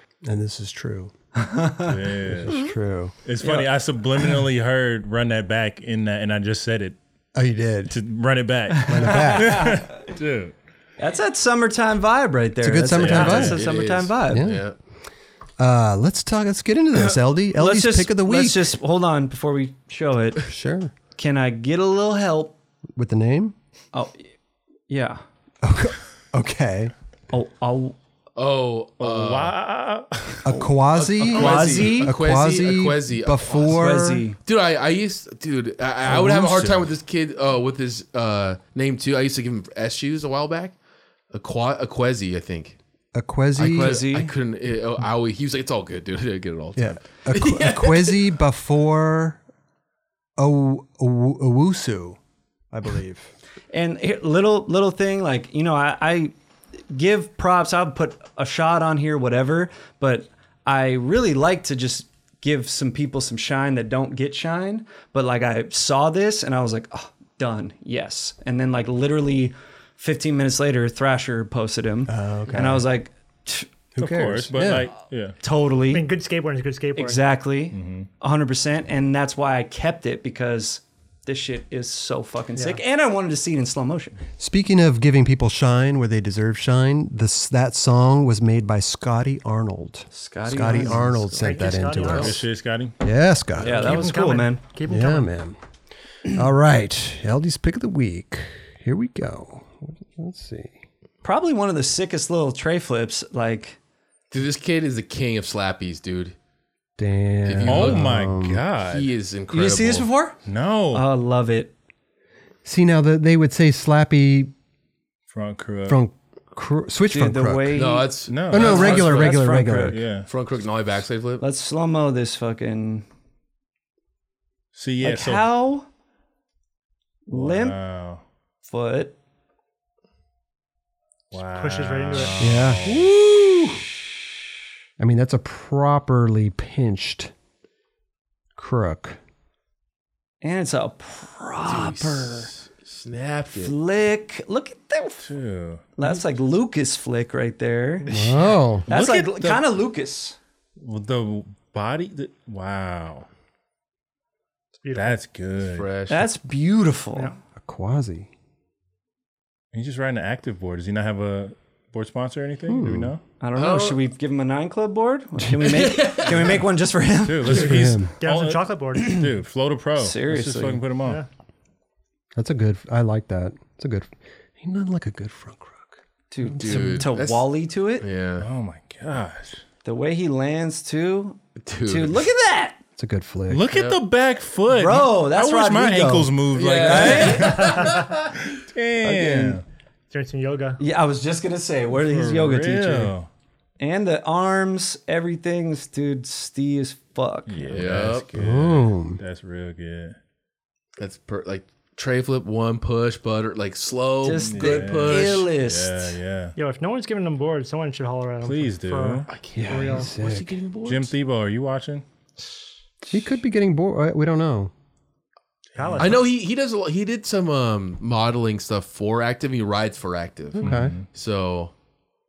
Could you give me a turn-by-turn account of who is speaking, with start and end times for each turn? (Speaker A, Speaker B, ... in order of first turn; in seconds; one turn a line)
Speaker A: 0.2-1.1
Speaker B: 1.4-2.0
Speaker C: 1.9-2.6
Speaker A: 2.3-3.1
Speaker C: 3.2-7.0
Speaker B: 3.4-3.7
Speaker A: 7.3-8.0
Speaker C: 7.9-10.5
Speaker A: 8.9-9.8
Speaker B: 8.9-9.8
Speaker B: 11.0-14.5
Speaker A: 12.6-13.6
Speaker C: 13.0-13.6
Speaker D: 13.2-14.8
Speaker A: 14.3-14.7
Speaker A: 15.6-18.8
Speaker B: 17.5-20.4
Speaker A: 20.5-20.9
Speaker B: 21.2-22.6
Speaker A: 23.0-23.6
Speaker B: 23.9-24.3
Speaker B: 24.9-25.2
Speaker A: 25.6-26.9
Speaker B: 27.3-27.9
Speaker D: 28.4-29.6
Speaker C: 29.0-30.5
Speaker A: 30.4-34.3
Speaker D: 30.6-33.8
Speaker B: 31.2-32.1
Speaker B: 33.7-34.4
Speaker D: 34.4-40.8
Speaker A: 36.0-36.9
Speaker D: 41.3-42.8
Speaker A: 43.1-44.0
Speaker B: 43.6-44.3
Speaker D: 43.6-48.2
Speaker A: 46.8-49.4
Speaker A: 50.4-52.2
Speaker A: 52.7-53.3
Speaker B: 53.7-56.3
Speaker B: 56.9-73.7
Speaker A: 72.1-72.9
Speaker A: 73.9-74.9
Speaker C: 74.0-75.4
Speaker B: 75.4-76.1
Speaker E: 75.9-77.3
Speaker B: 77.0-84.2
Speaker C: 77.7-78.1
Speaker A: 84.4-92.4
Speaker B: 90.1-91.7
Speaker E: 91.4-92.4
Speaker C: 92.0-93.0
Speaker D: 92.1-92.4
Speaker A: 93.0-94.0
Speaker B: 93.6-94.6
Speaker E: 93.7-95.3
Speaker A: 94.9-95.6
Speaker A: 96.3-100.8
Speaker B: 101.2-103.8
Speaker D: 104.3-106.3
Speaker A: 107.0-108.6
Speaker D: 107.5-108.1
Speaker C: 107.7-109.1
Speaker D: 108.8-110.1
Speaker B: 109.5-110.4
Speaker C: 110.5-111.1
Speaker B: 110.9-111.7
Speaker A: 112.7-114.5
Speaker C: 115.3-116.0
Speaker A: 115.9-117.9
Speaker B: 117.1-120.0
Speaker D: 117.7-119.3
Speaker C: 118.3-119.2
Speaker A: 118.5-120.0
Speaker C: 119.9-120.3
Speaker D: 120.3-121.4
Speaker B: 121.4-123.1
Speaker C: 124.7-125.5
Speaker B: 125.0-125.9
Speaker B: 127.3-127.8
Speaker C: 127.3-128.2
Speaker B: 128.7-129.2
Speaker C: 131.3-133.1
Speaker E: 131.6-132.5
Speaker A: 132.4-133.8
Speaker A: 135.0-137.3
Speaker A: 138.6-139.2
Speaker B: 140.4-142.5
Speaker D: 141.7-143.8
Speaker B: 143.5-145.3
Speaker C: 145.2-145.8
Speaker B: 146.0-148.1
Speaker E: 148.0-148.4
Speaker A: 148.1-148.8
Speaker C: 148.9-149.7
Speaker B: 148.9-150.4
Speaker C: 150.8-153.3
Speaker E: 154.8-155.2
Speaker C: 154.9-155.9
Speaker D: 155.6-156.3
Speaker B: 156.1-157.3
Speaker A: 157.6-158.3
Speaker C: 159.7-163.2
Speaker A: 162.7-163.2
Speaker B: 163.4-167.7
Speaker D: 163.6-164.0
Speaker D: 165.6-166.6
Speaker C: 167.3-171.2
Speaker A: 167.5-168.1
Speaker E: 168.2-169.2
Speaker B: 170.0-170.8
Speaker A: 172.3-177.0
Speaker B: 176.3-178.1
Speaker D: 176.6-177.5
Speaker D: 178.0-178.5
Speaker C: 178.4-179.6
Speaker B: 179.8-182.8
Speaker D: 181.6-182.2
Speaker A: 183.0-183.7
Speaker C: 183.5-189.6
Speaker B: 184.8-187.7
Speaker D: 186.5-188.3
Speaker E: 187.5-188.0
Speaker B: 189.0-189.6
Speaker E: 190.1-190.8
Speaker B: 190.8-193.1
Speaker C: 191.9-193.3
Speaker B: 193.8-197.8
Speaker C: 197.5-200.2
Speaker D: 197.7-198.3
Speaker A: 198.3-199.2
Speaker D: 201.0-205.5
Speaker B: 204.2-206.2
Speaker C: 204.4-206.6
Speaker E: 206.6-210.1
Speaker C: 208.4-209.3
Speaker D: 209.3-211.1
Speaker A: 209.5-210.6
Speaker C: 210.8-212.1
Speaker A: 213.1-214.7
Speaker C: 215.8-216.2
Speaker E: 215.8-216.2
Speaker D: 216.0-221.7
Speaker A: 220.6-220.9
Speaker C: 220.6-221.1